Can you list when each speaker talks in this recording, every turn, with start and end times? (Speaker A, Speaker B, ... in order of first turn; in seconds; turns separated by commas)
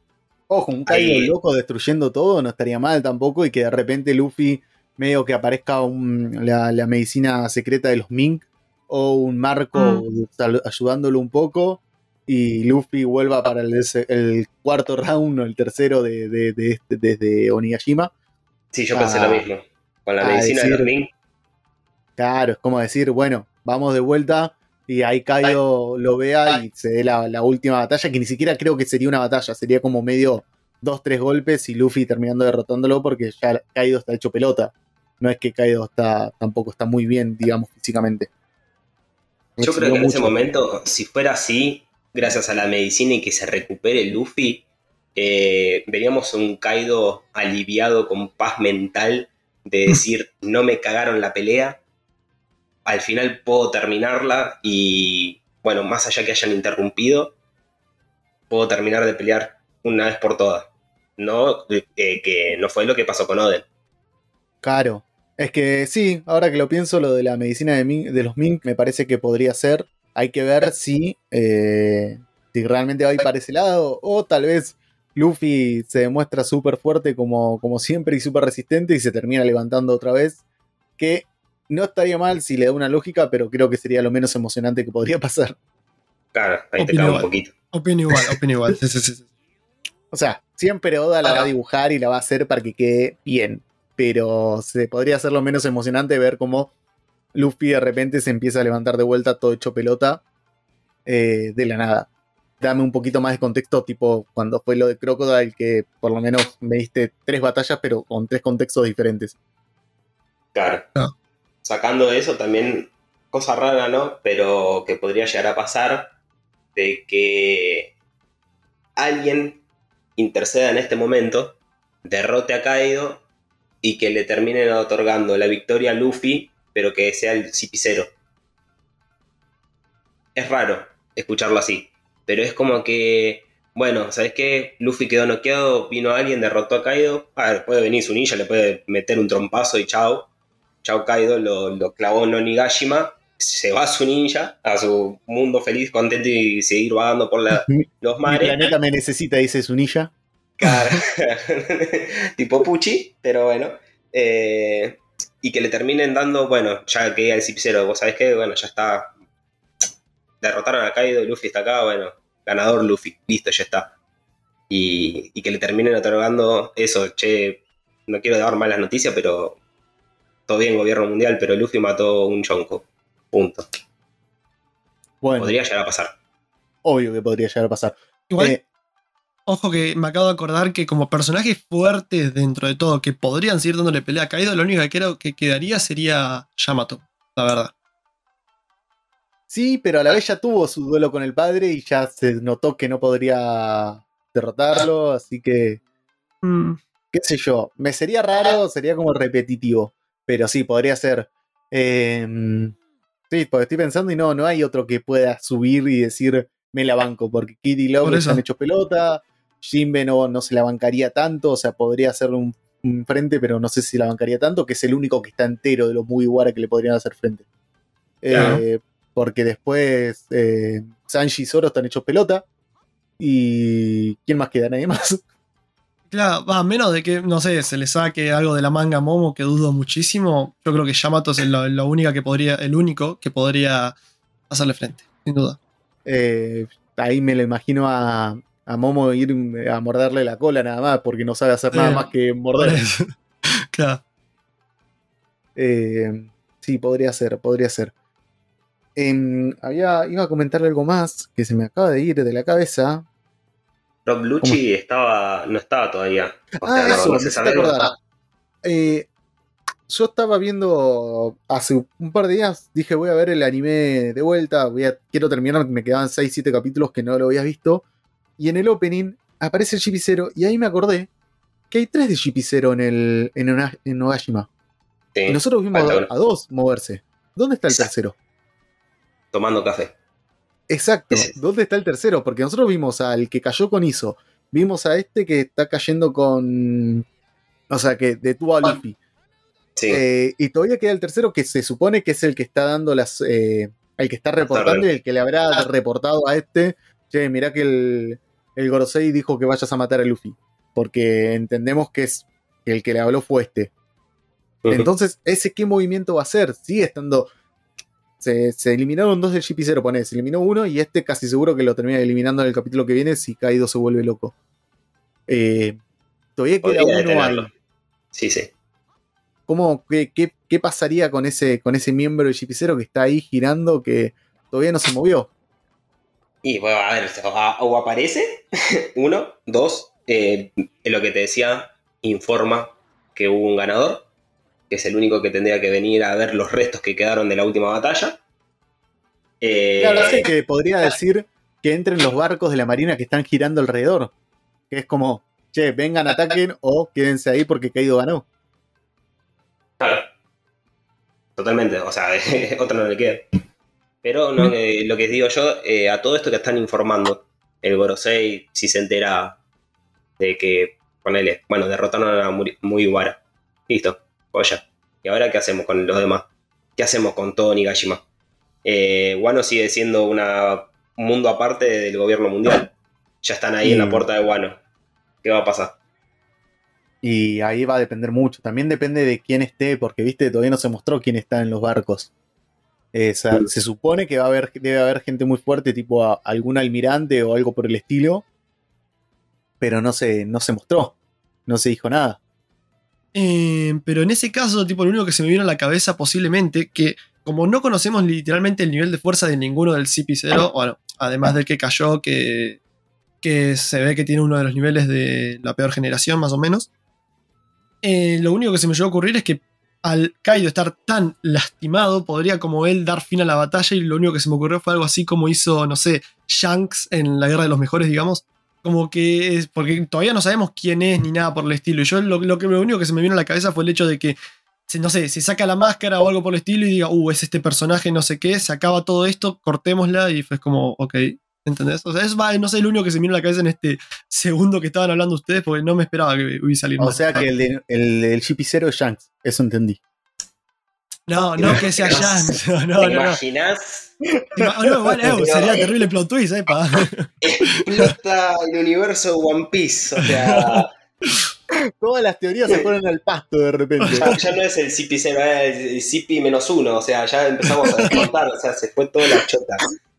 Speaker A: 0.5-18.1, Speaker B: 0.9-1.3, Speaker C: 9.7-10.0, Speaker B: 18.7-21.1, Speaker A: 18.9-19.4, Speaker A: 20.2-20.9, Speaker A: 22.2-38.3, Speaker A: 39.6-40.4, Speaker B: 39.6-51.8, Speaker B: 52.9-57.3, Speaker B: 58.5-63.6, Speaker A: 64.6-80.4, Speaker A: 81.0-85.6, Speaker B: 86.3-87.5, Speaker C: 86.8-89.2, Speaker A: 90.1-96.7, Speaker A: 97.3-100.2, Speaker A: 101.0-102.1, Speaker A: 102.6-109.3, Speaker B: 110.5-110.8, Speaker B: 111.6-116.1, Speaker B: 116.7-117.9, Speaker B: 119.0-119.6, Speaker B: 120.2-123.2, Speaker B: 123.8-128.1, Speaker B: 130.3-140.3, Speaker B: 140.8-148.7, Speaker A: 147.5-150.1, Speaker B: 150.6-159.1, Speaker B: 160.4-163.9, Speaker B: 164.7-169.6, Speaker B: 170.5-173.7, Speaker A: 175.2-175.5, Speaker B: 175.4-176.1, Speaker A: 176.8-178.6, Speaker C: 178.3-178.5, Speaker C: 179.5-187.7, Speaker A: 189.5-195.8, Speaker C: 196.4-196.8, Speaker A: 197.1-202.7, Speaker A: 203.3-217.4, Speaker C: 208.0-208.4, Speaker A: 218.2-222.4, Speaker C: 218.3-218.6, Speaker A: 223.2-225.2, Speaker C: 226.1-233.9, Speaker C: 234.5-235.6, Speaker A: 236.1-242.8, Speaker C: 241.7-243.1, Speaker C: 243.7-244.0, Speaker A: 245.6-247.9, Speaker A: 248.9-253.1, Speaker B: 254.1-257.9, Speaker A: 256.6-257.9, Speaker A: 258.6-259.1, Speaker A: 259.9-267.8, Speaker A: 268.4-271.1, Speaker A: 271.7-274.5, Speaker B: 275.1-276.1, Speaker A: 275.3-278.1, Speaker B: 279.3-279.9, Speaker A: 280.7-287.0, Speaker A: 287.7-289.0, Speaker B: 289.8-290.0, Speaker A: 289.9-303.7, Speaker B: 294.4-294.9, Speaker A: 304.7-307.3, Speaker A: 308.2-314.3, Speaker A: 315.3-315.8, Speaker A: 316.4-317.5, Speaker B: 316.6-317.5, Speaker B: 318.1-318.5, Speaker A: 319.5-325.3, Speaker B: 326.4-334.1, Speaker B: 334.7-338.2, Speaker B: 339.4-340.2, Speaker A: 339.8-344.1, Speaker A: 344.7-348.2, Speaker B: 349.8-350.1, Speaker B: 351.4-353.2, Speaker B: 354.0-359.4, Speaker B: 360.2-368.0, Speaker B: 368.6-374.6, Speaker A: 373.6-374.1, Speaker B: 375.2-375.8, Speaker A: 377.0-382.1, Speaker A: 382.9-388.2, Speaker A: 389.6-390.9, Speaker A: 391.5-392.2, Speaker C: 393.1-402.6, Speaker C: 403.2-406.7, Speaker C: 407.8-424.1, Speaker C: 424.7-437.3, Speaker A: 436.8-439.8, Speaker C: 441.1-443.2, Speaker A: 441.4-442.0, Speaker B: 441.4-443.9, Speaker A: 444.3-444.9, Speaker C: 444.4-447.1, Speaker B: 445.1-445.7, Speaker B: 447.2-450.7, Speaker C: 450.3-451.1, Speaker A: 451.8-454.2, Speaker C: 453.8-454.1, Speaker B: 454.0-459.6, Speaker C: 457.5-458.0